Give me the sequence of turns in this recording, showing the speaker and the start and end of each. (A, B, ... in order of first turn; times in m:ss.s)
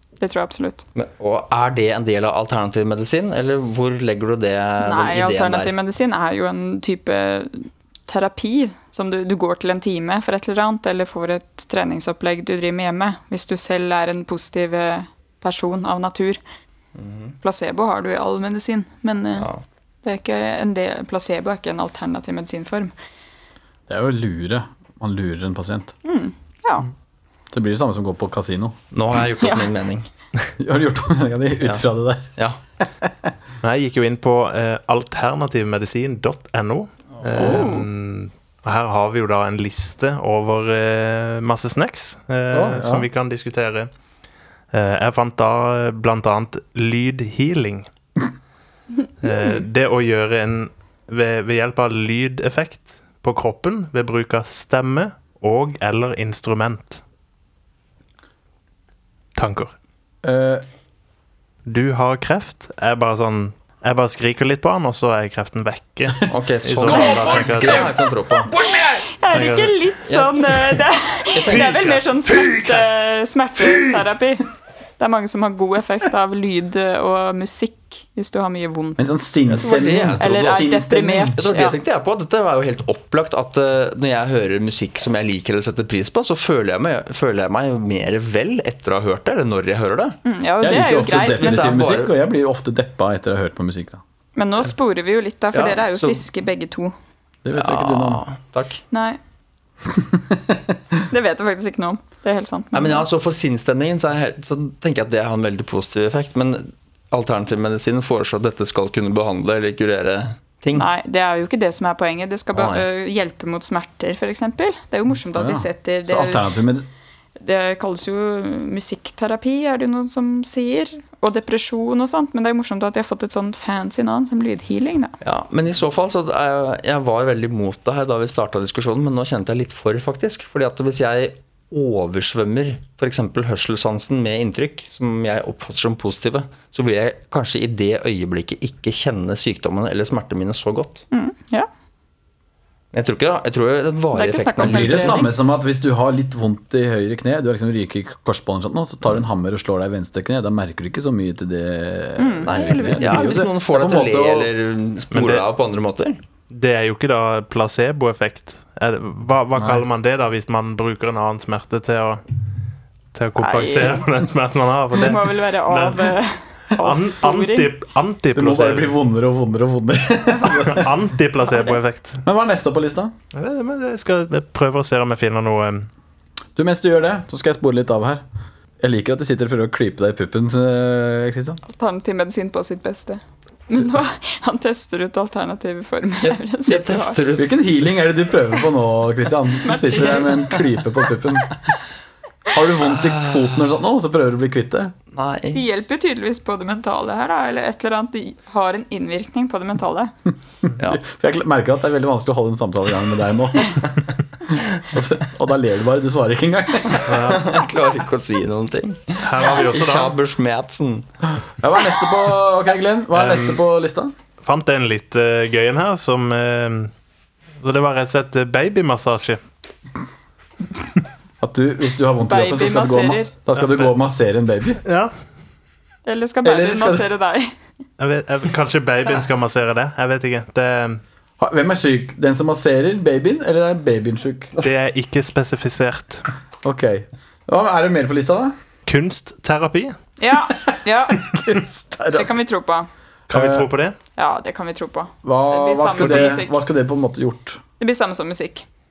0:00.2-0:00.8 A
0:01.0-0:05.7 B
0:04.8-0:16.4 A
0:17.0-0:17.4 B
0:17.4-0:19.5 A
0:19.4-0:19.6 B
0:20.0-0:22.9 A
0:23.9-0:25.9 C
0:26.0-0:26.9 A
0:27.5-0:28.8 C
0:28.9-0:30.1 B
0:29.4-0:29.7 A
0:30.6-0:33.3 C
0:33.6-0:43.9 D
0:37.4-0:37.8 C
0:37.4-0:37.9 A
0:42.5-0:43.1 C
0:44.7-0:47.9 D
0:49.2-0:57.0 D
0:59.4-0:59.7 D
1:00.2-1:00.6 C
1:01.7-1:08.0 D
1:06.3-1:09.0 B
1:07.4-1:08.0 C
1:08.6-1:19.1 A
1:09.3-1:09.9 D
1:10.0-1:10.5 B
1:11.4-1:11.9 B
1:11.4-1:13.0 D
1:19.0-1:21.4 C
1:19.5-1:20.6 B
1:19.6-1:21.8 A
1:21.4-1:30.2 B
1:30.2-1:31.8 A
1:30.6-1:34.0 C
1:31.1-1:32.2 B
1:34.4-1:36.9 A
1:35.5-1:36.2 B
1:37.4-1:38.2 C
1:37.5-1:38.8 B
1:38.9-1:39.2 A
1:39.9-1:40.7 C
1:41.1-1:43.1 A
1:42.7-1:50.9 B
1:50.7-1:56.5 A
1:52.5-1:52.9 B
1:55.3-1:56.9 C
1:57.4-2:05.2 A
2:05.2-2:21.0 B
2:21.1-2:21.7 A
2:22.9-2:25.2 B
2:24.1-2:25.3 A
2:24.6-2:34.5 C
2:32.2-2:33.5 A
2:32.4-2:36.2 B
2:35.1-2:35.5 D
2:36.5-2:42.2 D
2:39.6-2:39.8 C
2:43.1-2:46.2 D
2:43.4-2:44.1 A
2:45.0-2:47.7 A
2:46.8-2:49.0 D
2:48.3-2:50.9 C
2:50.5-2:52.2 D
2:51.4-2:51.8 A
2:52.2-2:53.1 C
2:53.3-2:55.9 D
2:56.6-2:58.2 C
2:58.8-3:01.6 C
3:01.7-3:07.2 A
3:06.2-3:07.6 B
3:07.4-3:11.6 C
3:09.6-3:10.6 A
3:12.5-3:14.9 C
3:12.8-3:13.7 B
3:15.1-3:15.6 B
3:15.5-3:20.1 A
3:20.6-3:27.4 C
3:27.1-3:27.5 D
3:27.1-3:31.1 B
3:29.2-3:30.2 D
3:31.4-3:34.1 C
3:33.1-3:33.6 D
3:34.4-3:36.9 D
3:37.6-3:39.4 D
3:41.4-3:44.8 C
3:42.3-3:43.3 A
3:43.5-3:43.9 D
3:44.8-3:45.1 D
3:46.1-3:47.5 A
3:46.4-3:47.1 C
3:48.0-3:51.0 D
3:51.4-3:54.5 C
3:54.6-3:56.3 D
3:56.6-3:58.5 C
3:58.9-4:00.0 D
4:00.2-4:01.2 A
4:01.1-4:02.3 C
4:02.1-4:02.9 A
4:03.3-4:04.0 D
4:03.3-4:03.7 C
4:04.2-4:06.6 A
4:05.2-4:07.6 C
4:06.0-4:06.3 D
4:07.8-4:08.7 A